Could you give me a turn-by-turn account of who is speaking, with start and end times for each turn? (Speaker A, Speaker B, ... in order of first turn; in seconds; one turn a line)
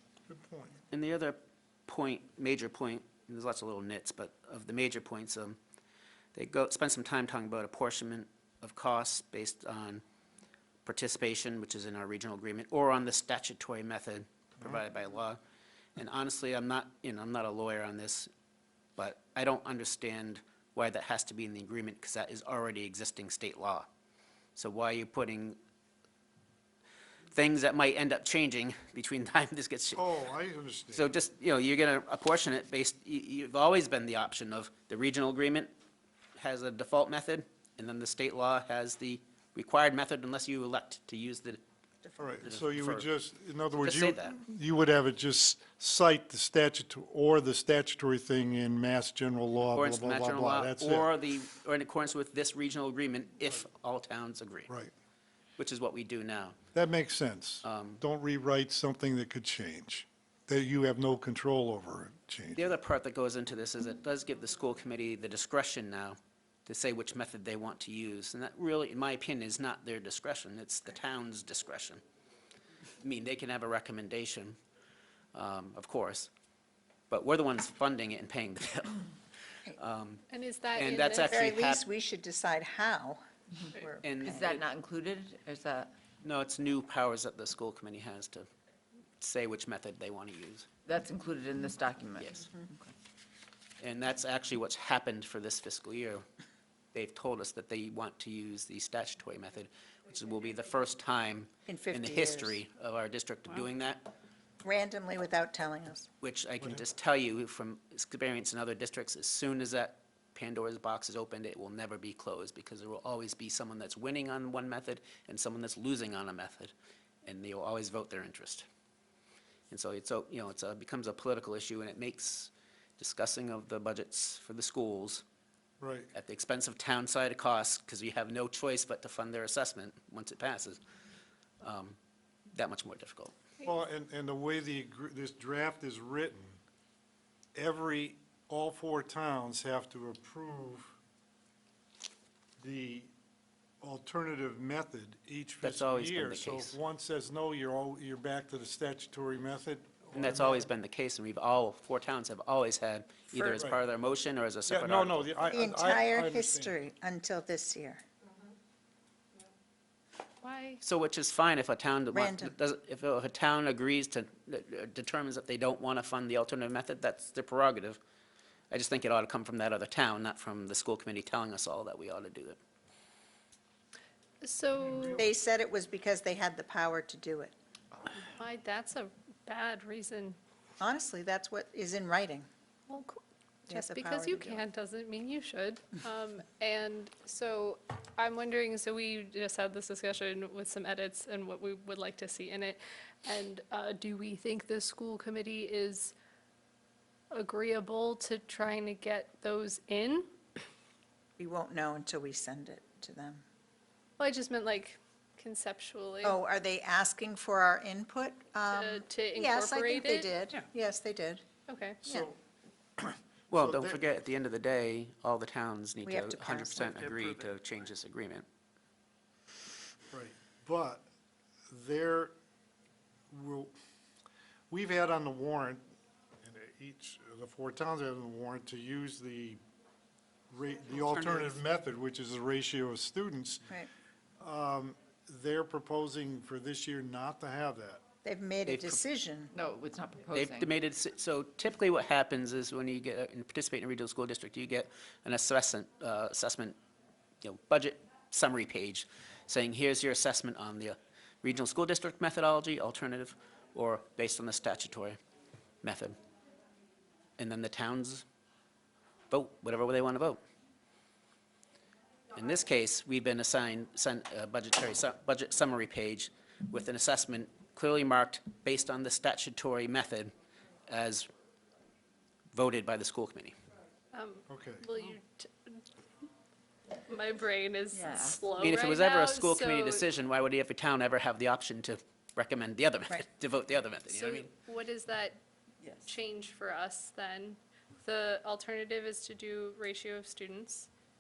Speaker A: 0.3-0.8
Speaker B: 0.9-5.6
Speaker B: 6.3-10.0
Speaker B: 10.8-15.4
Speaker B: 16.0-18.3
Speaker B: 19.0-23.9
Speaker B: 24.6-25.6
Speaker B: 27.3-30.1
Speaker A: 29.9-31.1
Speaker B: 30.9-35.7
Speaker B: 36.4-41.6
Speaker A: 42.2-51.1
Speaker B: 42.4-43.1
Speaker B: 43.8-44.4
Speaker B: 49.7-54.7
Speaker A: 54.7-54.9
Speaker B: 55.6-56.6
Speaker A: 56.7-62.8
Speaker B: 57.6-58.0
Speaker B: 62.6-72.0
Speaker B: 73.0-74.6
Speaker B: 75.3-76.3
Speaker B: 77.1-79.1
Speaker B: 79.7-80.2
Speaker C: 80.3-81.4
Speaker B: 80.7-81.8
Speaker D: 81.3-84.2
Speaker B: 84.0-84.6
Speaker E: 84.2-85.9
Speaker B: 86.2-88.5
Speaker B: 89.2-90.7
Speaker E: 90.9-92.9
Speaker B: 92.2-92.5
Speaker B: 93.8-96.2
Speaker B: 96.9-104.1
Speaker D: 101.7-102.6
Speaker D: 104.6-106.1
Speaker B: 106.2-116.7
Speaker B: 117.2-118.7
Speaker B: 119.7-125.2
Speaker A: 125.8-126.1
Speaker B: 126.1-130.8
Speaker B: 131.6-132.0
Speaker B: 132.5-133.3
Speaker A: 133.6-136.6
Speaker A: 137.6-141.0
Speaker A: 142.6-143.1
Speaker A: 143.8-150.7
Speaker B: 145.6-146.8
Speaker B: 150.1-155.3
Speaker A: 153.4-153.8
Speaker A: 154.7-156.8
Speaker D: 155.5-158.0
Speaker C: 160.4-160.8
Speaker B: 160.8-168.0
Speaker D: 162.1-162.5
Speaker B: 168.7-172.6
Speaker C: 174.4-175.2
Speaker A: 174.9-175.2
Speaker D: 175.2-177.5
Speaker C: 178.2-180.4
Speaker D: 180.8-182.5
Speaker C: 182.9-196.1
Speaker D: 183.7-184.7
Speaker C: 197.3-200.3
Speaker D: 201.4-203.4
Speaker C: 204.2-206.4
Speaker D: 206.2-211.4
Speaker C: 208.7-210.3
Speaker C: 211.7-212.0
Speaker A: 212.0-212.4
Speaker A: 213.0-214.0
Speaker B: 213.5-218.5
Speaker D: 216.1-217.3
Speaker A: 220.1-221.1
Speaker A: 221.7-222.3
Speaker A: 223.3-223.7
Speaker A: 224.7-225.8
Speaker A: 226.4-229.6
Speaker A: 230.5-233.7
Speaker B: 230.9-231.6
Speaker A: 234.4-238.0
Speaker D: 238.2-239.5
Speaker B: 238.7-239.0
Speaker E: 239.5-240.7
Speaker B: 240.3-246.8
Speaker B: 247.4-255.2
Speaker B: 255.8-256.2
Speaker B: 257.4-258.2
Speaker B: 259.3-260.4
Speaker B: 262.3-270.3
Speaker B: 270.9-271.3
Speaker B: 272.5-273.6
Speaker C: 274.1-275.8
Speaker A: 274.5-274.9
Speaker C: 277.1-280.1
Speaker E: 277.9-278.4
Speaker B: 278.6-284.5
Speaker C: 284.1-285.4
Speaker E: 285.8-286.1
Speaker C: 286.0-290.9